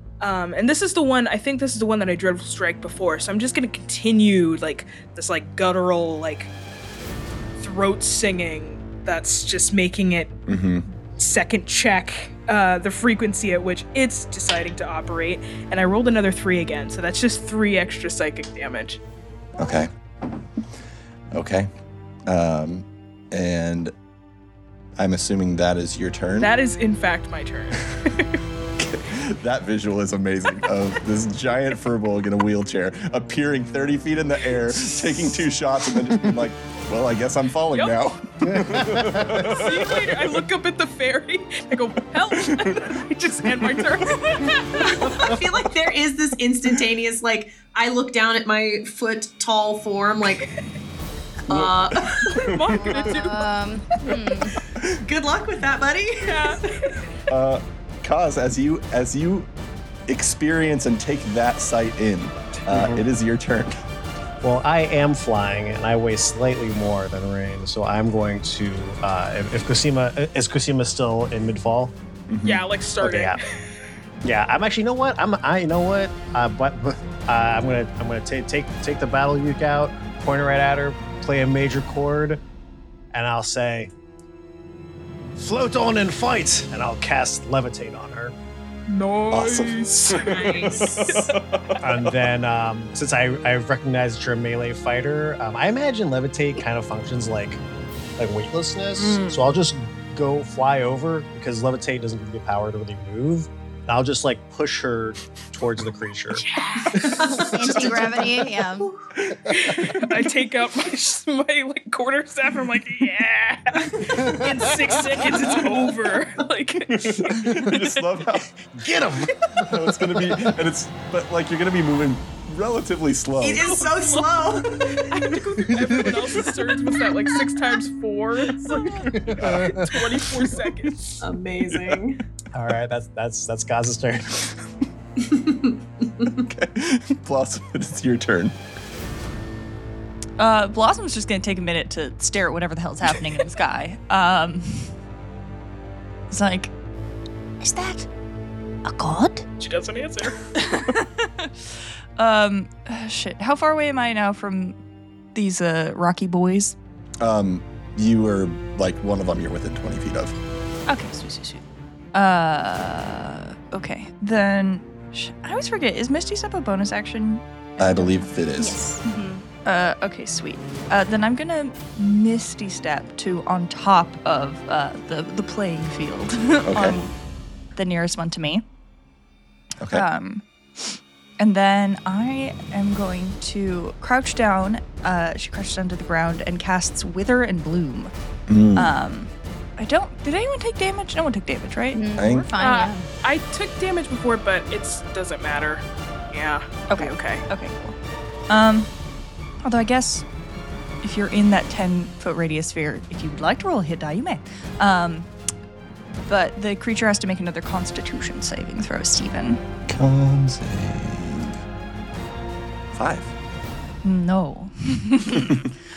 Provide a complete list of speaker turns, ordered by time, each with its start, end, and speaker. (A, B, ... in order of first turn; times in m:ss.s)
0:00.2-0:06.5 A
0:07.6-0:10.4 A
0:10.5-0:10.9 B
0:11.2-0:19.0 A
0:19.6-0:19.9 B
0:21.3-0:21.7 B
0:22.3-0:23.9 B
0:25.0-0:26.5 B
0:26.4-0:28.4 A
0:28.8-0:40.2 B
0:38.4-0:39.4 C
0:39.3-0:45.3 A
0:45.0-0:50.5 D
0:51.5-0:52.4 D
0:51.5-0:53.1 B
0:52.4-0:53.6 A
0:53.0-0:54.6 E
0:54.8-0:55.0 B
0:55.0-0:56.8 D
0:56.2-0:57.1 A
0:57.3-0:59.5 B
1:00.1-1:03.8 B
1:02.7-1:03.0 C
1:04.4-1:12.0 C
1:12.3-1:12.6 B
1:12.4-1:13.4 A
1:13.0-1:13.4 C
1:14.2-1:22.4 C
1:23.1-1:23.9 C
1:25.4-1:28.4 C
1:28.9-1:31.3 A
1:29.3-1:32.1 B
1:30.2-1:31.4 D
1:31.8-1:37.6 C
1:38.2-1:47.2 C
1:39.0-1:39.4 F
1:46.4-1:48.9 E
1:47.0-1:48.4 D
1:49.5-1:58.0 A
1:57.0-1:58.6 B
1:58.8-2:00.4 C
1:59.6-2:03.8 B
2:03.4-2:05.1 D
2:03.6-2:04.6 A
2:05.1-2:11.1 A
2:05.8-2:06.1 C
2:09.2-2:09.9 C
2:09.4-2:09.9 B
2:11.2-2:12.2 D
2:11.7-2:12.0 B
2:12.5-2:14.5 C
2:15.2-2:16.3 D
2:16.2-2:18.6 B
2:20.4-2:25.0 F
2:26.3-2:26.7 F
2:27.6-2:28.1 F
2:28.8-2:29.5 F
2:29.6-2:30.4 A
2:30.6-2:34.8 F
2:35.3-2:36.8 F
2:37.2-2:40.4 B
2:40.9-2:41.6 F
2:42.1-2:48.4 F
2:47.8-2:48.8 B
2:48.6-2:49.0 E
2:49.0-2:57.1 F
2:56.7-2:57.0 B
2:57.7-2:58.6 F
2:59.9-3:08.1 F
3:08.5-3:08.9 B
3:08.8-3:12.1 F
3:11.9-3:13.1 E
3:12.2-3:12.5 B
3:12.6-3:17.4 A
3:16.9-3:18.0 F
3:18.5-3:18.9 F
3:19.6-3:20.3 F
3:21.0-3:25.3 F
3:26.3-3:29.6 F
3:29.9-3:31.5 B
3:32.9-3:33.3 B
3:34.0-3:35.6 F